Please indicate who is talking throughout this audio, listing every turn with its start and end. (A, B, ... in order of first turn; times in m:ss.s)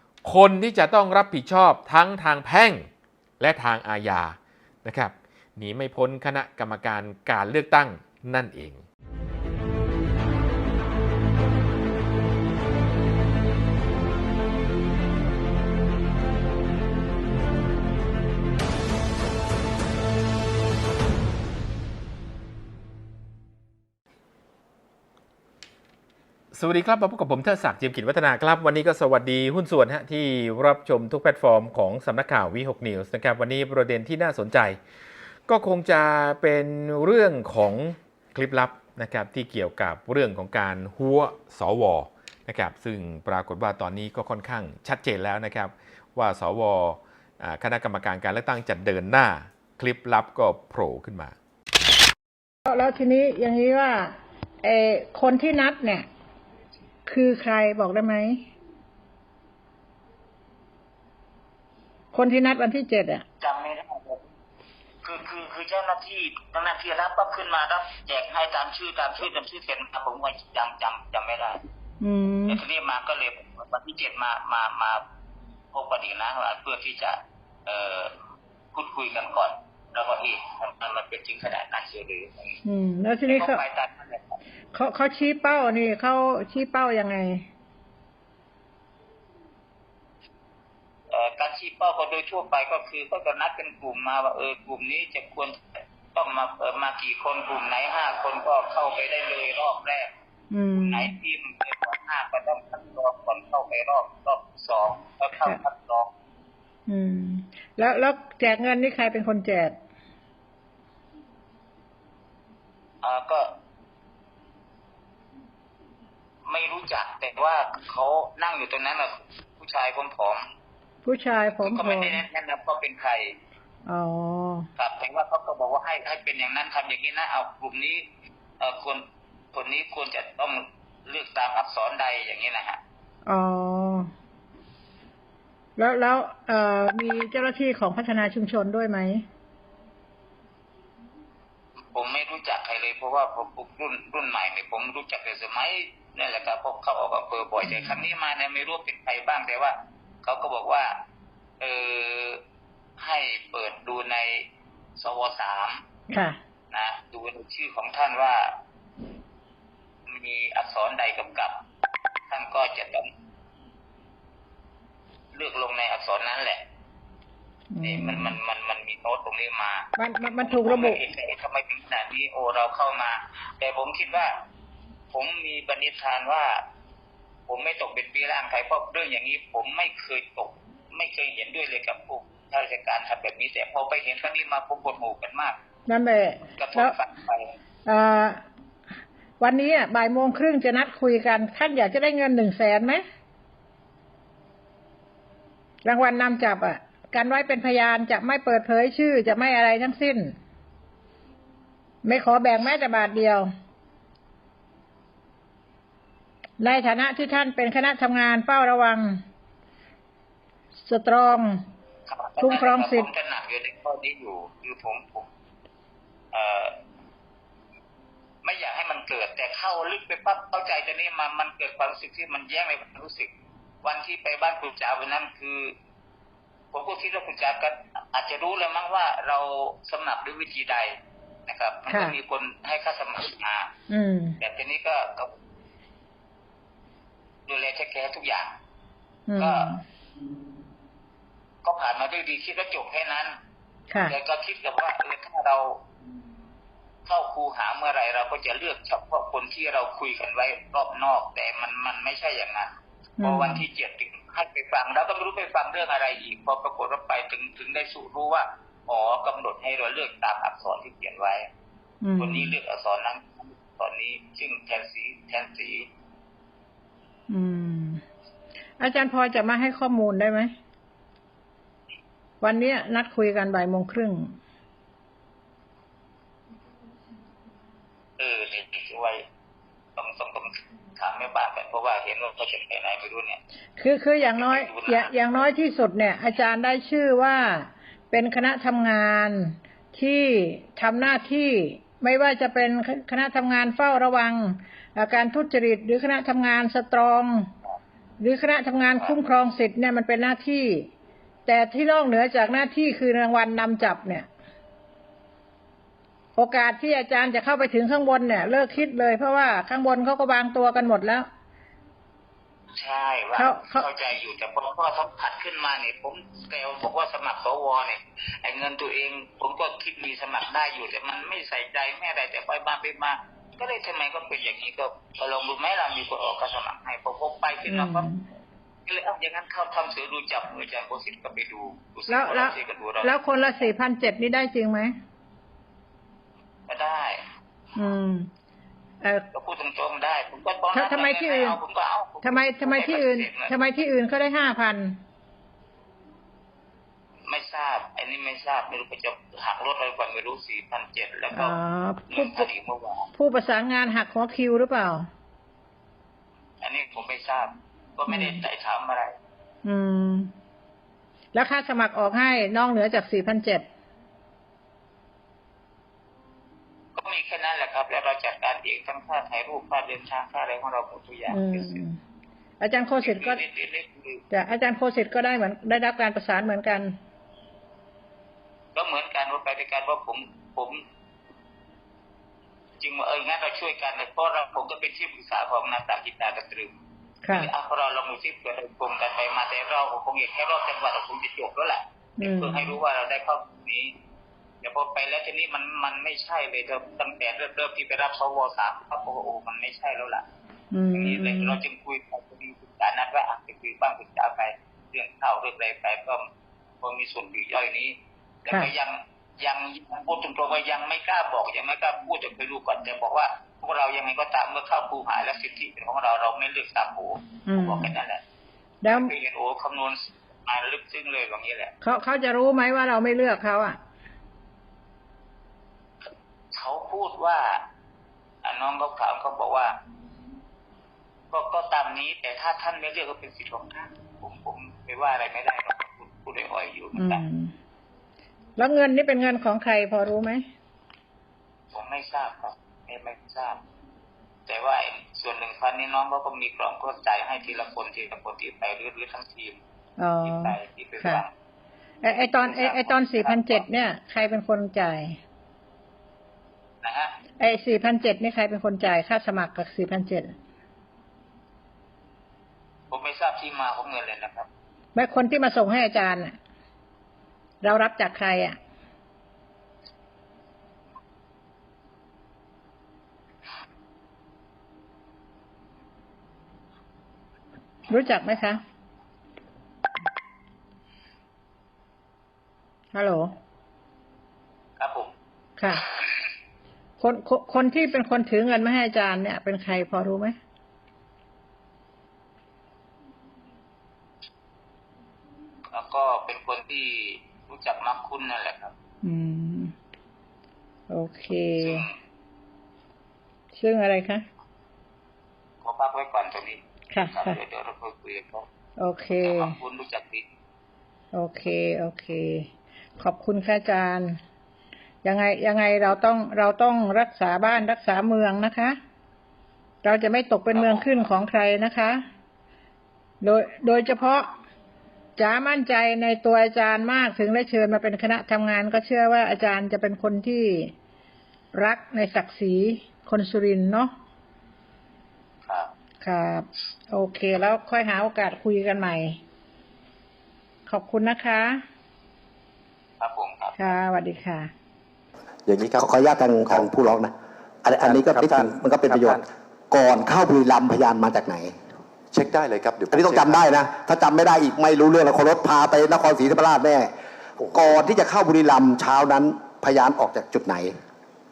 0:00.2-0:02.9 A
0:03.4-0:08.8 A
0:26.5-0:34.8 A
0:35.5-0:51.3 A
0:52.6-0:56.0 B
0:57.0-0:58.4 B
1:02.1-1:03.2 B
1:03.4-1:04.2 C
1:05.0-1:11.6 C
1:12.0-1:12.6 B
1:12.5-1:15.0 C
1:15.7-1:18.1 C
1:18.7-1:22.6 C
1:22.6-1:23.6 B
1:23.3-1:24.4 C
1:24.7-1:27.4 B
1:31.1-1:40.1 C
1:40.5-1:41.1 B
1:40.8-1:46.1 C
1:46.9-1:49.8 B
1:53.0-1:53.5 C
1:56.5-2:00.4 C
2:01.0-2:02.2 B
2:01.6-2:03.3 C
2:03.9-2:04.6 B
2:04.8-2:08.0 C
2:08.6-2:12.8 C
2:13.3-2:14.1 B
2:15.8-2:19.2 B
2:21.9-2:31.0 C
2:27.6-2:28.0 B
2:31.6-2:32.4 C
2:33.0-2:34.4 C
2:35.0-2:35.8 C
2:36.1-2:36.4 B
2:36.7-2:38.6 C
2:40.1-2:41.6 C
2:42.3-2:43.1 C
2:45.4-2:46.6 C
2:47.7-2:48.3 B
2:47.8-2:54.3 C
2:50.0-2:51.0 B
2:55.1-2:56.6 C
2:57.5-3:05.6 C
3:05.9-3:07.0 B
3:06.6-3:07.5 C
3:07.8-3:08.4 B
3:09.4-3:13.0 B
3:15.8-3:20.4 B
3:22.0-3:23.5 B
3:26.6-3:29.2 B
3:30.9-3:31.6 B
3:32.1-3:35.3 C
3:32.4-3:33.1 B
3:36.3-3:36.8 C
3:38.4-3:43.3 C
3:43.8-3:45.7 C
3:46.7-3:51.0 C
3:51.5-3:53.7 C
3:51.9-3:52.1 B
3:53.9-3:54.4 B
3:54.4-3:55.3 C
3:57.5-3:58.5 C
3:59.3-3:59.8 B
3:59.4-3:59.7 C
4:01.6-4:03.4 C
4:03.9-4:04.2 B
4:04.1-4:05.8 C
4:07.0-4:21.5 C
4:13.2-4:13.6 B
4:22.0-4:22.5 B
4:22.2-4:25.9 C
4:27.3-4:28.0 B
4:28.8-4:30.5 B
4:32.4-4:34.4 B
4:38.2-4:39.2 C
4:40.0-4:43.4 C
4:43.8-4:57.5 B
4:44.3-4:45.4 C
4:58.2-5:00.9 B
5:01.4-5:04.3 B
5:06.4-5:11.3 B
5:12.7-5:28.1 C
5:13.4-5:13.8 B
5:27.7-5:28.2 B
5:28.9-5:33.6 C
5:32.1-5:34.9 B
5:36.7-5:37.2 C
5:37.8-5:38.3 B
5:39.0-5:39.3 B
5:39.3-5:43.5 C
5:40.7-5:41.6 B
5:42.2-5:45.0 B
5:47.3-5:51.6 C
5:51.3-5:52.5 B
5:52.1-5:53.1 C
5:53.1-5:55.1 B
5:56.6-5:59.1 C
5:58.1-5:58.4 B
5:59.6-6:00.3 B
6:01.3-6:03.7 B
6:07.0-6:11.8 C
6:11.3-6:12.0 B
6:12.6-6:13.4 B
6:13.0-6:14.2 C
6:14.3-6:17.0 B
6:18.7-6:20.8 C
6:22.8-6:26.7 C
6:27.2-6:27.5 B
6:27.3-6:33.9 C
6:32.2-6:32.7 B
6:34.6-6:40.2 C
6:40.7-6:41.6 B
6:40.9-6:46.2 C
6:46.8-6:47.9 C
6:48.4-6:58.2 C
6:57.5-6:57.9 B
6:58.8-6:59.1 B
6:58.8-7:01.7 C
7:01.8-7:03.8 B
7:06.5-7:07.6 C
7:08.4-7:09.7 C
7:11.3-7:17.2 C
7:17.0-7:17.5 B
7:18.6-7:20.4 B
7:21.7-7:23.6 C
7:24.5-7:29.6 C
7:30.0-7:31.2 B
7:30.2-7:31.3 C
7:32.0-7:35.2 B
7:32.1-7:33.6 C
7:36.8-7:37.1 C
7:37.4-7:40.4 B
7:42.9-7:44.5 C
7:44.9-7:46.4 B
7:47.6-7:48.6 B
7:57.9-7:58.6 B
8:02.9-8:03.3 B
8:04.8-8:05.1 C
8:05.6-8:05.8 B
8:07.0-8:10.4 B
8:15.7-8:18.7 C
8:19.0-8:19.7 B
8:20.9-8:21.8 B
8:21.6-8:21.9 C
8:23.5-8:24.2 B
8:25.6-8:28.4 C
8:26.9-8:27.4 B
8:28.8-8:29.6 B
8:29.2-8:30.2 C
8:31.1-8:32.5 B
8:33.0-8:34.2 B
8:35.0-8:38.8 B
8:39.8-8:42.0 B
8:43.2-8:44.3 B
8:45.2-8:50.7 B
8:51.5-8:53.9 B
8:55.5-8:55.7 C
8:56.0-8:59.2 B
9:00.7-9:01.6 B
9:03.0-9:03.7 C
9:03.6-9:04.5 B
9:05.4-9:05.9 D
9:05.8-9:07.1 E
9:07.6-9:11.5 E
9:07.8-9:09.2 D
9:12.1-9:13.4 D
9:12.9-9:16.9 E
9:17.4-9:17.8 D
9:17.5-9:20.7 E